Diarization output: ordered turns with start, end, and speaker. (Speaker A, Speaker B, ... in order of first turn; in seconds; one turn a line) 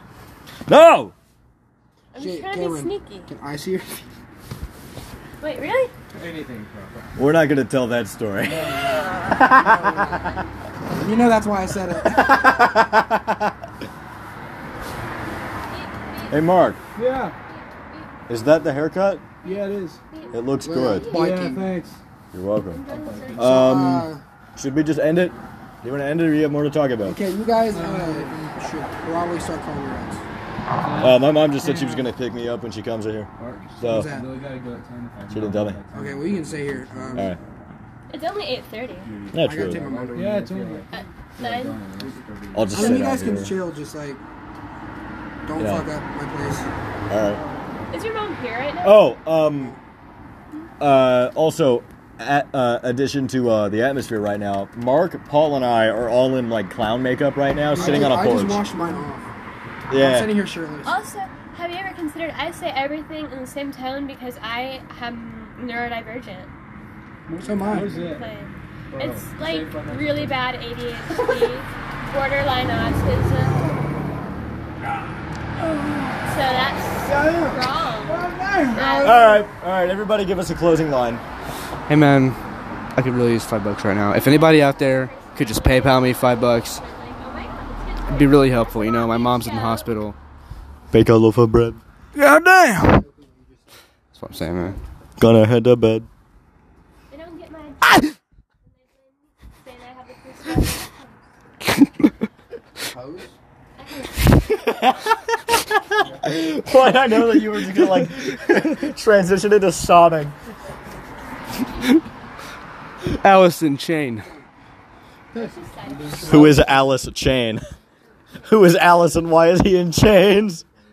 Speaker A: 0.7-1.1
Speaker B: 2.1-3.3
Speaker C: 2.1-4.0
Speaker B: 5.4-5.9
Speaker D: 6.1-7.2
Speaker A: 7.2-10.2
Speaker B: 8.8-9.2
Speaker C: 9.4-10.3
Speaker C: 10.9-12.5
Speaker A: 12.1-13.5
Speaker B: 15.7-16.4
Speaker A: 16.3-16.8
Speaker E: 16.9-17.4
Speaker B: 17.5-18.1
Speaker A: 18.3-19.3
Speaker B: 19.4-21.4
Speaker E: 19.4-20.0
Speaker A: 20.3-21.1
Speaker C: 20.6-21.7
Speaker E: 21.1-22.0
Speaker A: 22.3-22.8
Speaker B: 22.7-23.9
Speaker D: 22.9-23.8
Speaker A: 23.4-27.2
Speaker C: 23.4-24.2
Speaker C: 27.0-30.2
Speaker E: 27.7-28.5
Speaker D: 30.8-31.1
Speaker E: 30.8-32.1
Speaker A: 31.0-33.3
Speaker D: 33.4-37.4
Speaker A: 33.8-34.1
Speaker C: 33.8-34.3
Speaker A: 35.3-35.8
Speaker C: 35.9-37.3
Speaker B: 38.1-39.1
Speaker D: 39.0-43.5
Speaker A: 39.3-39.8
Speaker C: 39.4-40.4
Speaker E: 40.1-40.9
Speaker B: 40.9-41.8
Speaker A: 42.5-43.5
Speaker C: 42.7-44.2
Speaker C: 45.4-46.7
Speaker A: 45.6-45.9
Speaker A: 47.1-47.4
Speaker B: 47.9-49.1
Speaker A: 48.8-49.8
Speaker A: 50.8-58.6
Speaker E: 57.7-58.3
Speaker C: 57.7-59.3
Speaker A: 59.9-60.3
Speaker C: 59.9-61.0
Speaker B: 60.8-66.5
Speaker E: 67.3-68.2
Speaker C: 67.4-68.0
Speaker B: 67.6-73.7
Speaker D: 68.9-70.4
Speaker E: 75.6-76.2
Speaker B: 76.2-79.4
Speaker E: 77.0-79.2
Speaker C: 78.7-79.3
Speaker A: 79.0-81.2
Speaker F: 81.9-82.4
Speaker F: 82.9-86.8
Speaker B: 84.1-89.9
Speaker F: 88.1-90.2
Speaker A: 90.9-91.8
Speaker F: 92.1-93.0
Speaker C: 92.8-93.8
Speaker F: 94.1-94.8
Speaker A: 95.2-96.1
Speaker B: 97.1-101.3
Speaker C: 102.9-103.4
Speaker B: 103.8-104.3
Speaker A: 104.5-105.6
Speaker A: 106.2-110.3
Speaker F: 113.2-114.3
Speaker B: 115.3-116.3
Speaker F: 116.2-116.6
Speaker A: 116.3-117.6
Speaker A: 118.4-120.6